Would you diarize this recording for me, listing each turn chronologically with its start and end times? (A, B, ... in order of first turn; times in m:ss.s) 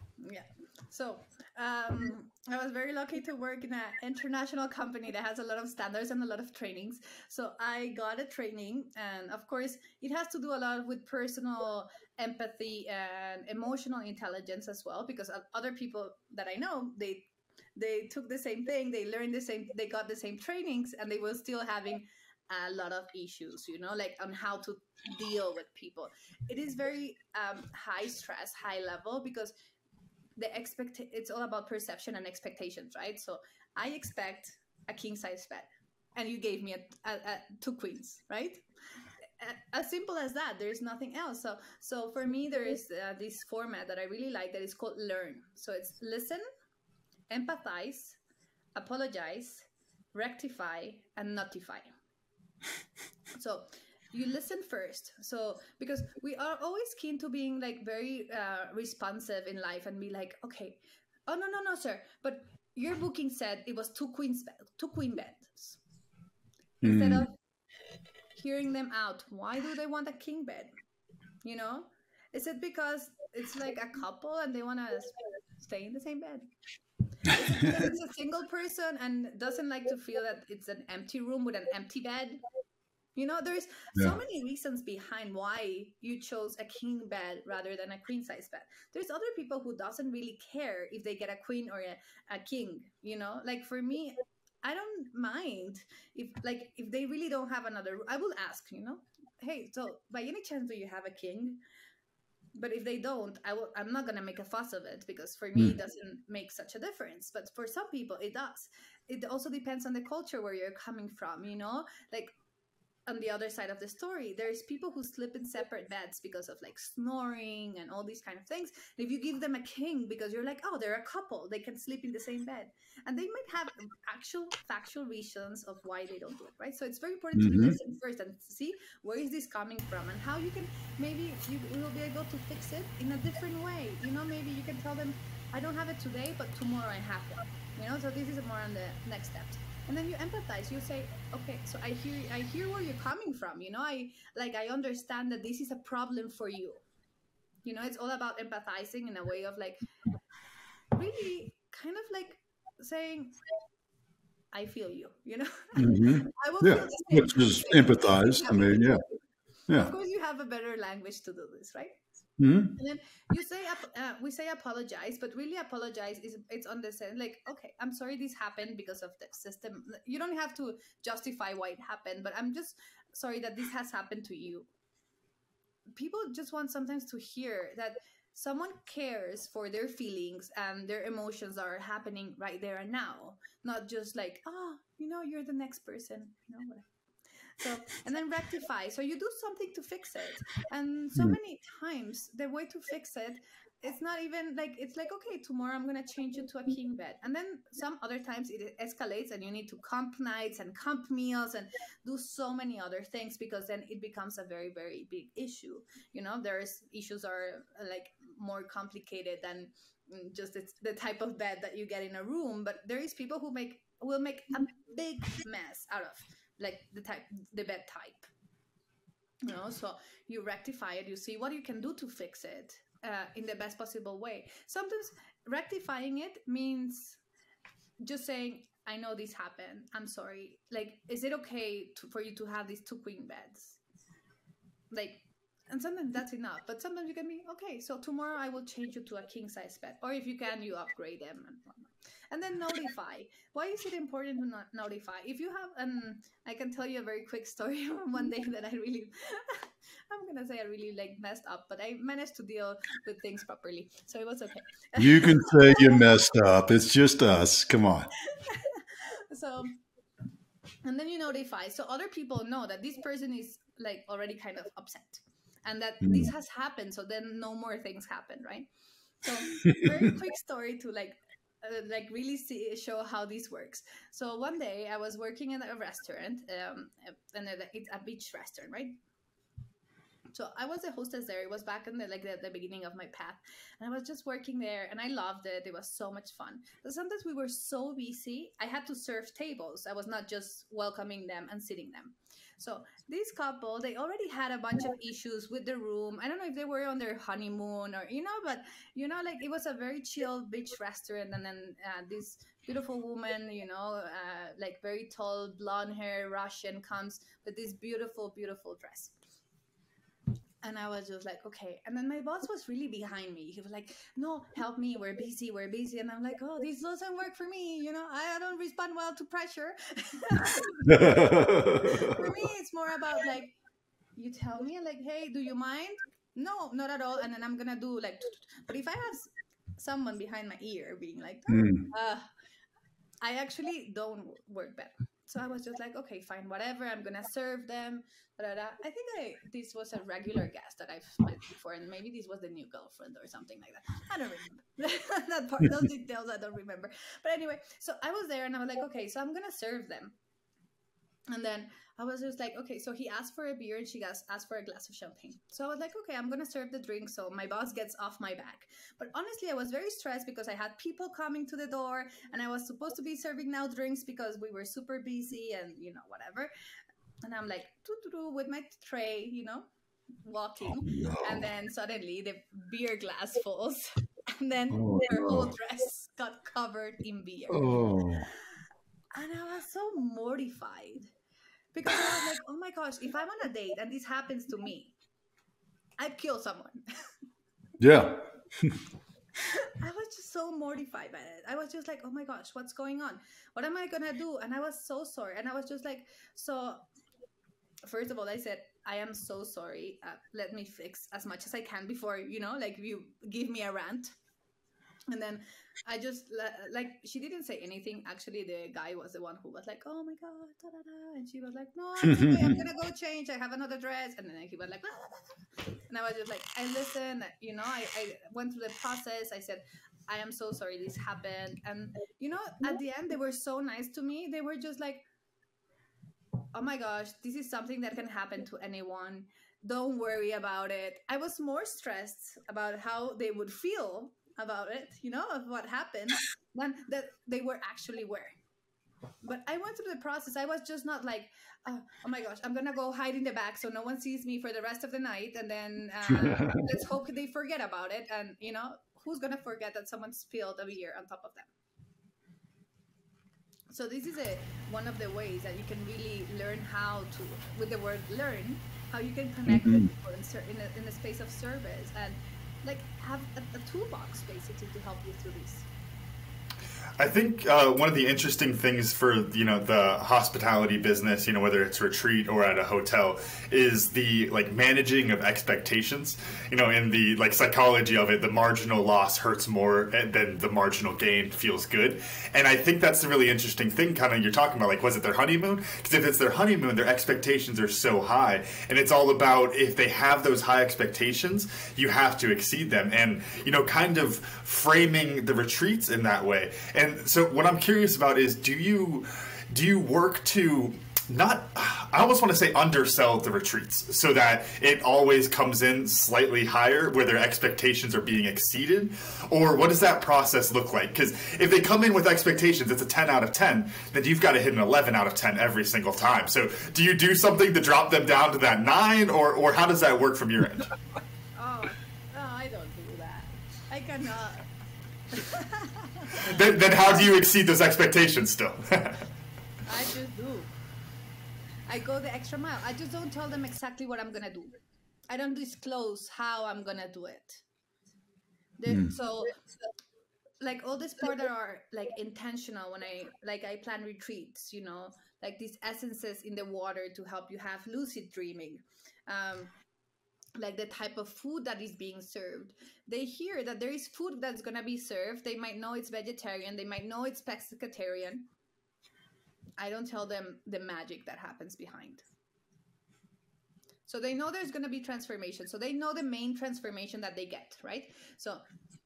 0:00.2-0:29.5 A
0:30.4-0:38.6 A
0:39.2-0:46.4 A
0:47.3-0:48.2 A
0:48.7-0:51.9 A
0:53.4-1:05.8 A
1:06.8-1:07.3 A
1:06.8-1:07.3 B
1:08.3-1:10.7 A
1:11.4-1:16.5 A
1:17.2-1:22.4 A
1:17.4-1:17.7 B
1:23.2-1:41.6 A
1:42.6-1:52.3 A
1:53.1-2:26.8 A
2:07.4-2:07.8 B
2:27.6-2:29.9 A
2:30.9-2:33.4 A
2:34.5-2:39.1 A
2:35.8-2:39.0 B
2:39.7-2:42.0 A
2:42.4-2:42.7 B
2:42.8-2:54.7 A
2:55.9-3:06.9 A
3:07.6-3:38.3 A
3:39.4-3:47.2 A
3:48.0-3:53.8 A
3:54.9-4:16.0 A
4:15.0-4:18.1 B
4:18.2-4:19.8 A
4:20.8-4:28.7 A
4:26.0-4:26.3 B
4:29.2-4:39.0 A
4:40.3-5:09.1 A
5:10.6-5:23.6 A
5:20.9-5:22.2 B
5:24.2-5:32.3 A
5:31.5-5:31.8 B
5:33.2-5:50.2 A
5:51.3-6:06.5 A
6:07.2-6:09.7 A
6:10.2-6:17.8 A
6:10.8-6:11.4 B
6:14.7-6:15.5 B
6:17.5-6:18.3 B
6:19.1-6:21.1 A
6:21.7-6:25.0 A
6:26.0-6:26.8 A
6:27.8-6:28.8 B
6:29.4-6:36.8 A
6:37.8-6:44.2 A
6:45.1-6:55.3 A
6:52.0-6:52.6 B
6:55.9-7:05.0 A
7:06.5-7:18.3 A
7:19.2-7:31.5 A
7:26.1-7:26.6 B
7:33.7-7:45.7 A
7:39.5-7:39.9 B
7:47.0-8:40.7 C
8:41.4-8:44.5 A
8:45.1-8:47.0 A
8:46.2-8:49.0 C
8:49.6-8:50.5 A
8:51.7-8:54.6 A
8:55.1-8:57.4 A
8:58.6-8:59.4 A
8:58.7-8:58.9 B
9:00.4-9:09.5 A
9:10.4-9:18.3 A
9:19.6-9:22.0 A
9:23.8-9:28.4 A